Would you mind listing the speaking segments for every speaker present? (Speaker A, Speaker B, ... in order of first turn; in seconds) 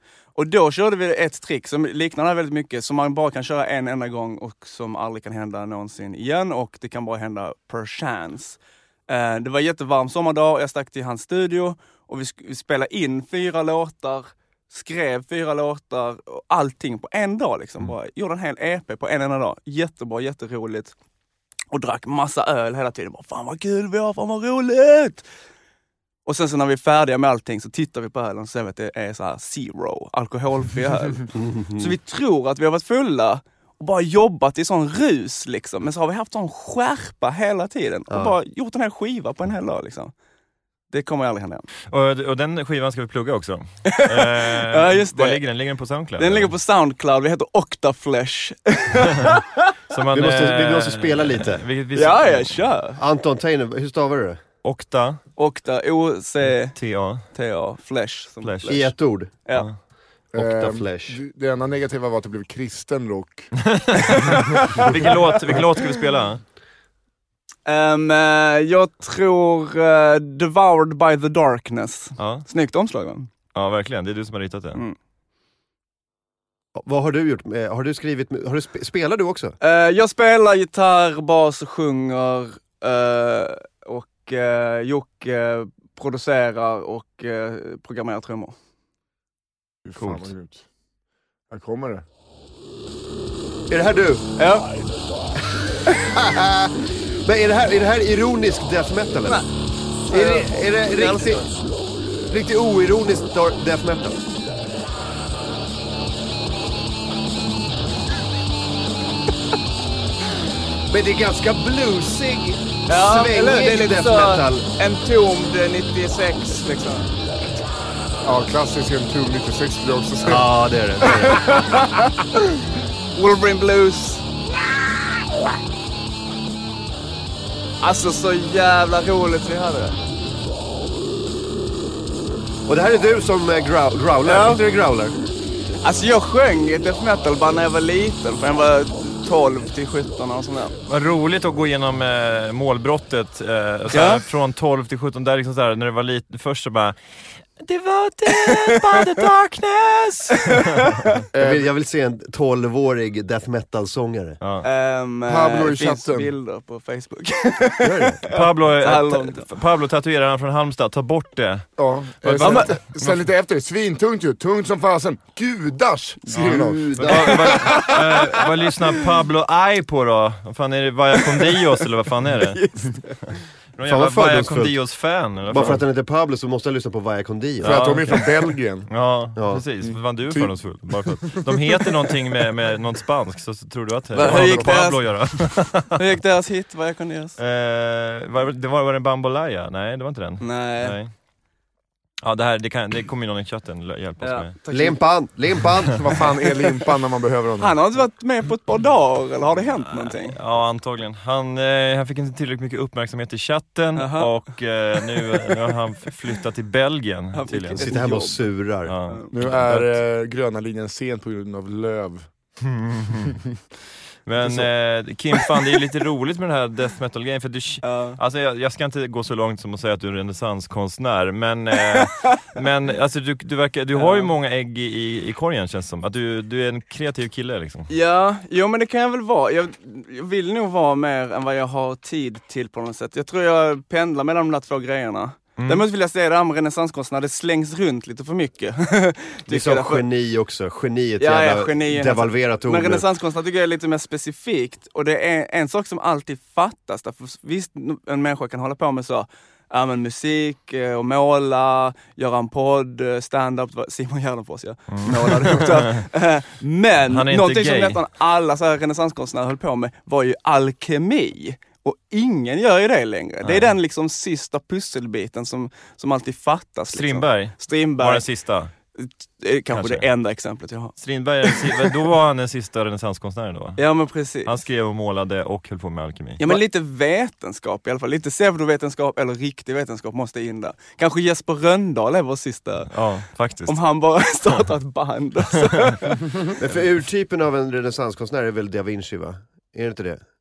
Speaker A: 0.3-20.9, 21.7-25.2, 26.2-40.1, 40.9-41.6, 43.9-45.4, 46.2-49.7, 51.9-53.0, 55.4-56.8, 57.3-58.9, 64.5-65.0, 67.7-73.3, 79.6-88.5, 94.4-94.7, 100.0-101.5, 112.9-117.1, 121.2-122.1, 123.1-124.2, 127.8-130.0, 134.2-134.6, 135.8-140.7, 143.9-144.2, 148.3-149.0, 150.5-151.2, 154.6-159.5, 162.4-162.7, 167.4-168.4, 171.2-171.6, 172.4-173.4, 184.1-187.4, 190.4-190.9, 194.2-195.0, 197.6-200.4, 203.9-204.3, 207.3-208.5, 209.1-209.3, 217.8-218.2, 221.9-222.3, 223.9-224.3, 227.9-240.0, 241.2-268.2, 268.9-270.9, 271.4-271.9, 273.8-274.6, 276.4-282.9, 283.6-286.2
Speaker B: 31.3-31.9, 38.1-38.4, 50.1-51.6, 53.0-54.4, 58.7-59.3, 60.3-61.2, 76.8-79.5, 93.7-94.3, 95.9-99.4, 100.1-101.5, 102.3-104.2, 110.9-114.6, 120.2-121.6, 132.7-135.1, 151.4-154.4, 157.8-158.2, 166.3-167.7, 173.8-174.7, 175.5-177.9, 179.4-179.6, 194.7-196.0, 207.8-208.9, 239.5-243.0, 286.6-290.2
Speaker C: 41.9-46.5, 49.9-52.7, 54.6-55.2, 56.7-57.2, 58.4-58.9, 63.6-66.4, 72.2-72.4, 73.5-74.8, 140.9-150.9, 154.4-154.7, 158.3-163.2, 166.9-172.8, 173.8-175.8, 177.6-178.3, 178.9-186.0, 187.4-191.1, 192.2-194.5, 199.8-208.1, 208.8-209.9, 212.6-213.3, 214.2-227.9, 235.6-235.8, 254.9-255.9, 257.1-258.0, 263.4-263.7, 266.9-268.7, 269.7-270.1, 271.0-273.8, 274.4-276.6, 282.9-283.8
Speaker D: 60.3-63.5, 89.8-90.6, 91.5-92.0, 118.2-120.6, 151.3-151.7, 155.3-156.3, 161.8-167.9, 177.6-178.9, 179.8-181.9, 184.2-184.9, 195.9-197.7, 209.3-212.3